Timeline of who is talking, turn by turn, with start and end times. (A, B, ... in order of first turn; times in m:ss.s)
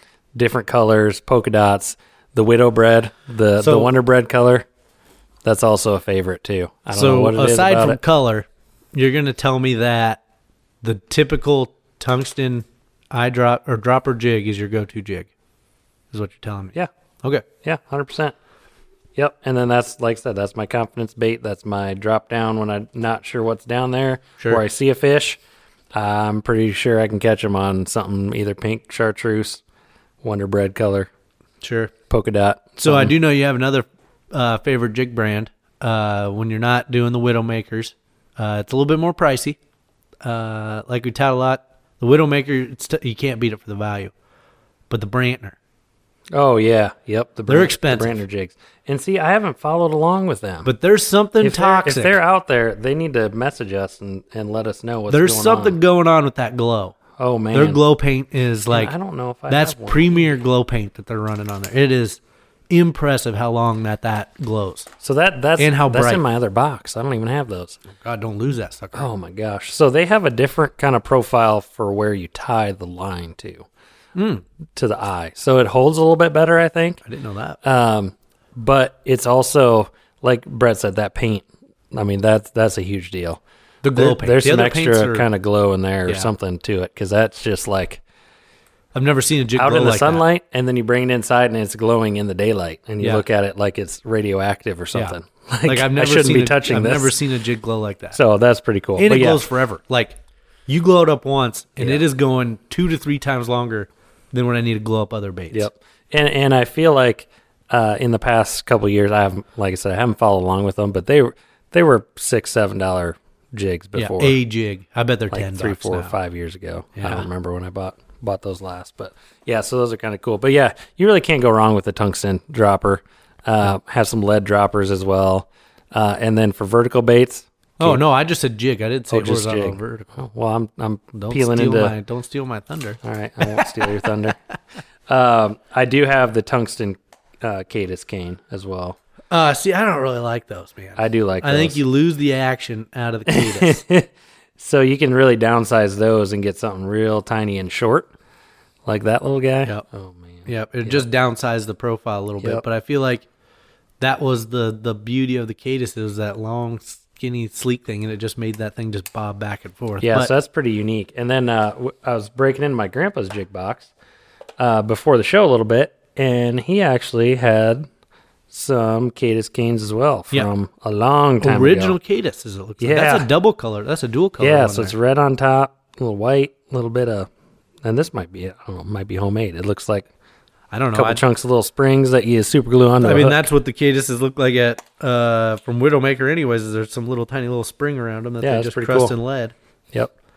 0:00.3-0:04.7 A
0:03.6-0:03.9 B
0:05.4-0:08.0 A
0:06.9-0:10.2 B
0:10.8-0:15.3 B
0:16.1-0:17.4 B
0:17.6-0:18.3 A
0:19.2-0:25.4 A
0:25.9-0:29.6 A
0:30.2-0:31.1 A
0:31.6-0:31.9 B
0:32.1-0:33.1 A
0:32.8-0:39.6 B
0:40.2-0:44.1 B
0:44.9-0:45.6 B
0:46.3-0:50.7 A
0:47.5-0:48.2 B
0:50.6-0:52.2 B
0:51.4-0:55.8 A
0:55.1-0:57.0 B
0:57.2-0:57.8 A
0:57.5-0:58.9 B
0:58.7-1:00.3 A
0:59.5-1:04.9 B
1:05.0-1:07.8 A
1:05.6-1:06.2 B
1:07.9-1:09.1 B
1:08.9-1:13.7 A
1:14.1-1:14.4 B
1:14.8-1:17.0 A
1:17.0-1:17.6 B
1:17.6-1:23.4 A
1:23.8-1:25.3 B
1:23.9-1:28.0 A
1:28.9-1:30.2 B
1:29.6-1:37.2 A
1:34.9-1:38.2 B
1:38.1-1:39.4 A
1:39.0-1:45.7 B
1:45.5-1:54.4 A
1:54.0-1:56.1 B
1:55.3-2:08.0 A
1:57.0-1:57.3 B
2:07.8-2:10.1 B
2:09.1-2:11.9 A
2:11.2-2:14.1 B
2:13.0-2:14.4 A
2:15.1-2:19.0 A
2:19.3-2:23.8 B
2:21.0-2:21.8 A
2:23.3-2:28.1 A
2:28.8-2:31.0 A
2:30.4-2:33.3 B
2:34.0-2:40.3 B
2:40.0-2:43.9 A
2:44.6-2:47.9 A
2:48.5-2:52.0 A
2:51.4-2:54.9 B
2:52.8-2:53.3 A
2:54.4-2:57.3 A
2:57.8-3:00.1 A
3:00.7-3:01.2 B
3:00.9-3:03.5 A
3:03.0-3:09.5 B
3:08.4-3:09.1 A